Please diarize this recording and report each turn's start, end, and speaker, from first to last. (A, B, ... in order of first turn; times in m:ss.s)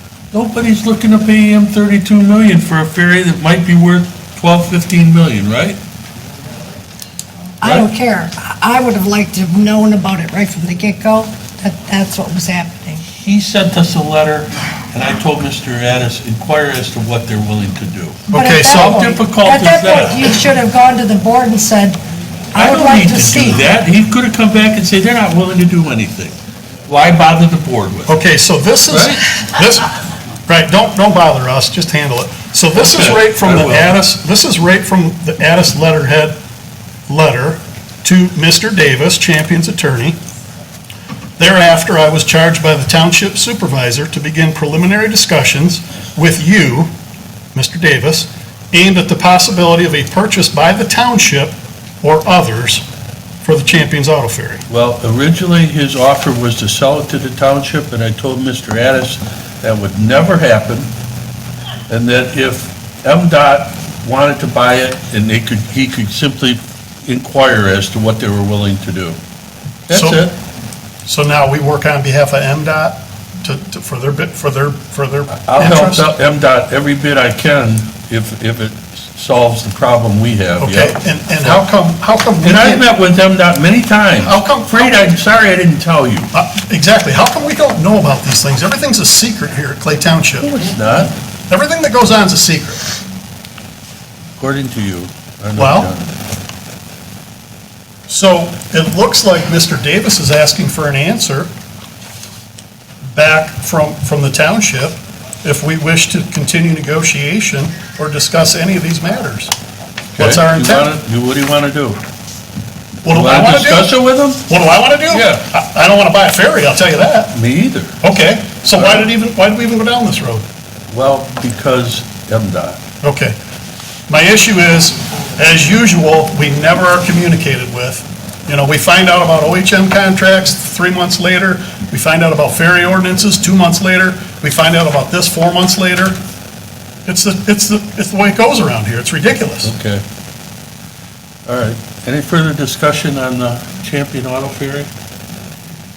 0:00.3-0:05.8 A
0:07.6-0:13.0 B
0:07.6-0:07.9 A
0:13.1-0:20.2 A
0:18.3-0:19.0 C
0:18.3-0:22.0 B
0:22.5-0:23.6 B
0:22.6-0:26.4 A
0:26.9-0:28.2 A
0:28.1-0:29.9 C
0:28.9-0:29.2 A
0:30.5-0:36.4 C
0:32.8-0:33.9 A
0:37.1-0:40.2 C
0:41.4-0:46.9 C
0:47.5-0:52.8 C
0:53.4-0:54.6 C
0:54.7-1:00.9 A
1:01.9-1:09.2 A
1:09.9-1:10.4 A
1:09.9-1:10.2 C
1:11.1-1:16.1 C
1:15.4-1:21.6 A
1:20.6-1:22.8 C
1:22.4-1:26.3 A
1:24.2-1:25.1 C
1:26.3-1:30.5 C
1:30.4-1:31.2 A
1:31.5-1:32.8 C
1:34.4-1:36.1 A
1:35.6-1:35.9 C
1:38.1-1:41.5 C
1:43.1-1:49.5 C
1:50.2-1:52.0 A
1:50.2-1:50.9 C
1:53.0-1:53.9 C
1:53.1-1:54.4 A
1:54.5-1:57.3 C
1:55.1-1:55.4 A
1:57.3-1:58.0 A
1:58.0-2:00.4 C
1:58.8-1:59.1 A
2:00.9-2:02.8 A
2:03.0-2:03.4 C
2:04.1-2:16.2 C
2:17.1-2:19.7 C
2:19.6-2:20.0 A
2:21.5-2:24.9 A